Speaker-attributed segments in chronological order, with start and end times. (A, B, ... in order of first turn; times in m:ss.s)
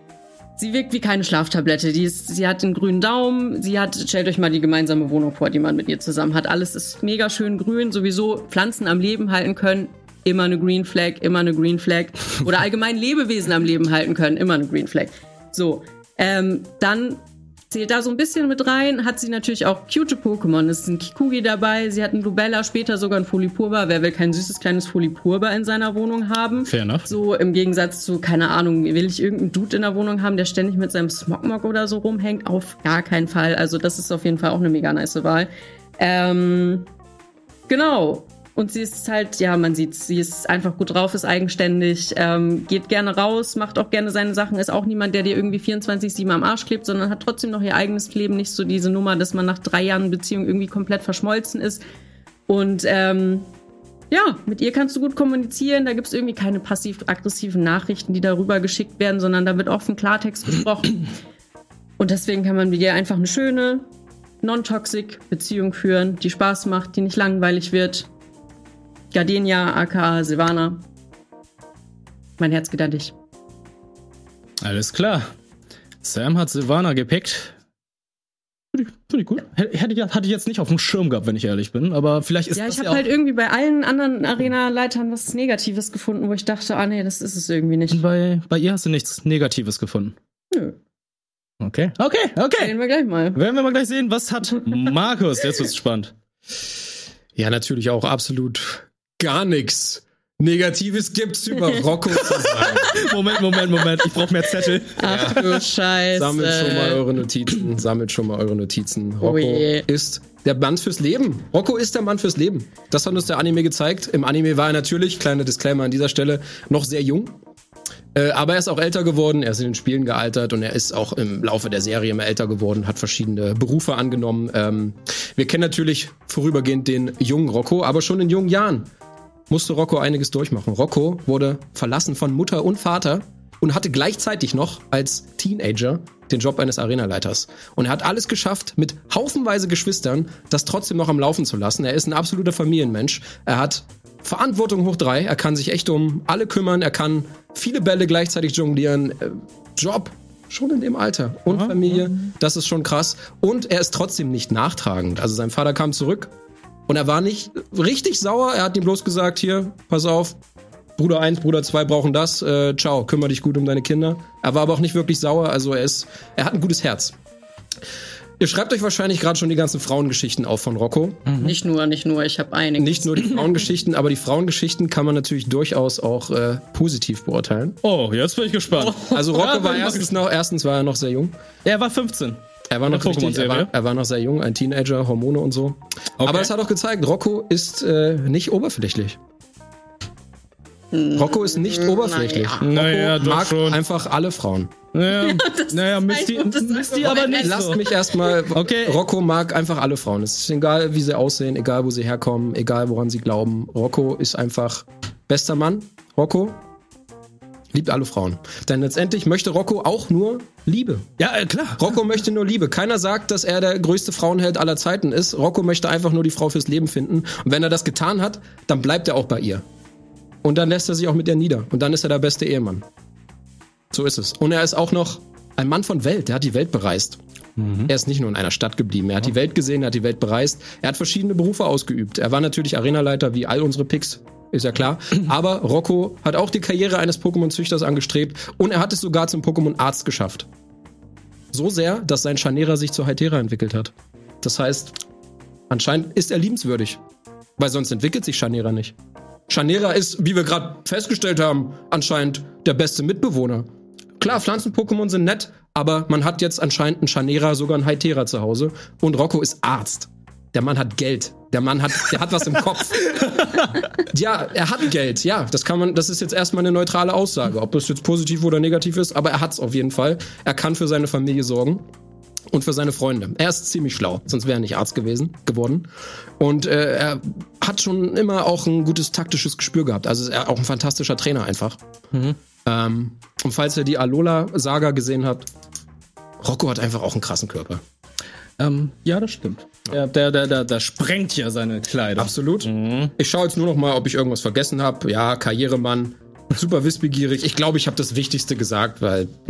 0:00.6-0:36.9 A
0:26.6-0:27.1 B
0:37.7-0:51.8 A
0:52.5-0:53.5 A
0:54.1-1:01.1 A
1:02.0-1:03.8 A
1:04.4-1:08.1 A
1:09.1-1:10.8 A
1:12.4-1:13.1 A
1:14.6-1:15.3 B
1:16.0-1:17.5 B
1:18.7-1:23.0 B
1:22.6-1:28.0 A
1:27.9-1:30.2 B
1:30.5-1:30.8 A
1:31.6-1:32.7 B
1:32.6-1:33.4 A
1:33.3-1:36.1 B
1:37.4-1:43.0 C
1:42.4-1:45.2 B
1:45.0-1:47.0 A
1:45.0-1:57.4 C
1:49.2-1:49.8 A
1:58.1-2:08.9 C
2:09.5-2:36.3 C
2:31.5-2:32.1 B
2:36.9-2:40.4 C
2:41.0-2:47.2 C
2:48.4-2:51.3 C
2:51.2-2:51.5 B
2:51.4-2:53.5 A
2:52.8-2:57.8 C
2:57.8-3:00.1 B
2:58.7-2:59.6 A
2:59.1-3:01.3 C
3:01.6-3:03.7 B
3:02.7-3:09.2 C
3:06.2-3:06.5 B
3:10.9-3:12.6 A
3:11.1-3:14.7 C
3:12.6-3:13.8 B
3:14.9-3:17.8 B
3:15.1-3:18.4 A
3:17.0-3:26.6 C
3:18.5-3:19.0 B
3:27.7-3:31.1 C
3:31.2-3:31.9 B
3:31.8-3:39.6 C
3:40.4-3:42.8 C
3:43.9-3:47.2 C
3:47.6-3:47.9 B
3:47.8-4:00.5 C
4:01.5-4:05.0 C
4:05.7-4:07.0 C
4:07.6-4:08.9 C
4:09.5-4:13.7 C
4:14.2-4:23.4 C
4:23.2-4:23.7 B
4:24.0-4:31.8 C
4:32.5-4:41.8 C
4:42.1-4:42.4 B
4:42.6-4:45.5 C
4:46.4-4:47.8 C
4:48.6-4:53.1 B
4:52.2-4:59.3 C